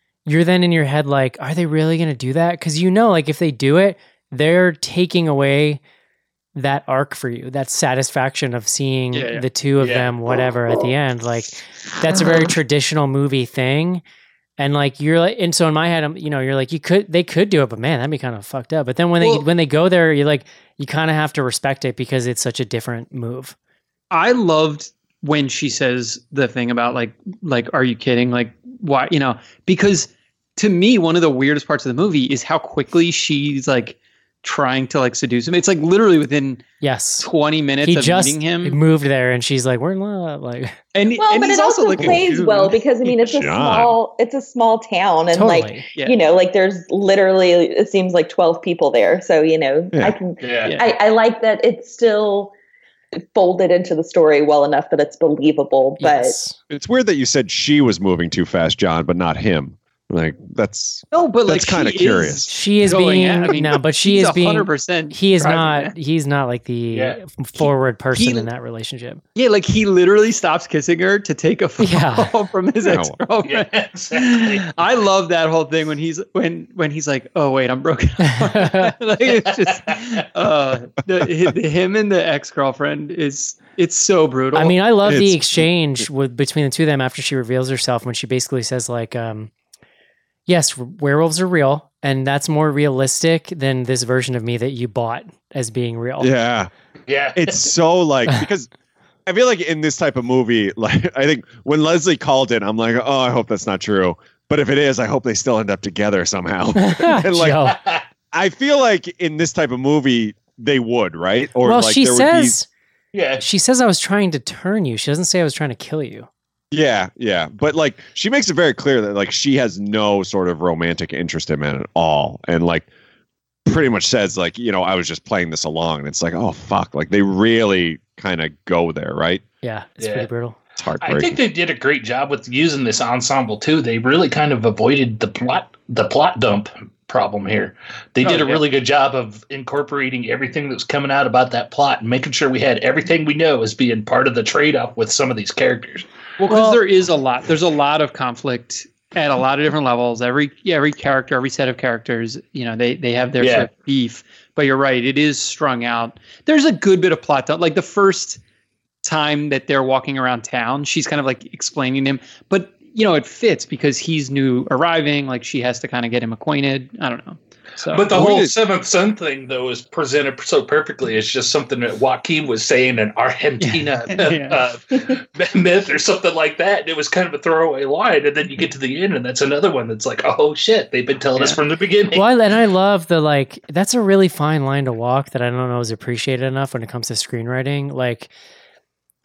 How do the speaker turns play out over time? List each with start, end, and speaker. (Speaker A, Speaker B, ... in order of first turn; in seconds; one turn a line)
Speaker A: 0.2-5.8
Speaker A: 6.5-14.0
Speaker B: 9.1-9.4
Speaker C: 9.8-10.1
Speaker A: 14.6-23.5
Speaker B: 19.2-19.5
Speaker B: 24.1-36.6
Speaker A: 36.8-37.3
Speaker B: 37.2-38.8
Speaker A: 37.8-40.8
Speaker B: 40.9-43.3
Speaker D: 41.2-52.5
Speaker E: 43.3-44.0
Speaker A: 45.3-45.9
Speaker C: 50.4-50.8
Speaker D: 53.3-56.3
Speaker A: 56.0-56.6
Speaker E: 56.7-62.5
Speaker B: 61.1-65.9
Speaker A: 62.5-69.2
Speaker C: 66.9-67.2
Speaker B: 67.6-68.5
Speaker B: 69.3-84.8
Speaker A: 71.8-72.3
Speaker E: 72.8-73.2
Speaker C: 73.4-74.6
Speaker A: 78.2-78.9
Speaker C: 79.7-79.9
Speaker A: 84.5-89.5
Speaker E: 85.0-86.0
Speaker A: 90.5-96.3
Speaker E: 96.2-96.7
Speaker C: 97.1-97.6
Speaker E: 97.3-98.7
Speaker E: 99.2-107.8
Speaker A: 106.8-107.8
Speaker E: 108.3-112.5
Speaker A: 111.6-112.7
Speaker C: 113.1-113.4
Speaker A: 113.4-116.3
Speaker E: 116.7-122.9
Speaker E: 123.7-129.4
Speaker A: 129.6-130.6
Speaker C: 130.0-130.3
Speaker E: 130.8-131.4
Speaker C: 131.0-146.1
Speaker B: 138.2-138.6
Speaker B: 146.4-158.4
Speaker A: 146.5-146.8
Speaker C: 153.4-153.7
Speaker B: 159.0-168.1
Speaker C: 167.8-182.2
Speaker E: 168.1-168.5
Speaker B: 173.6-174.6
Speaker A: 182.1-188.3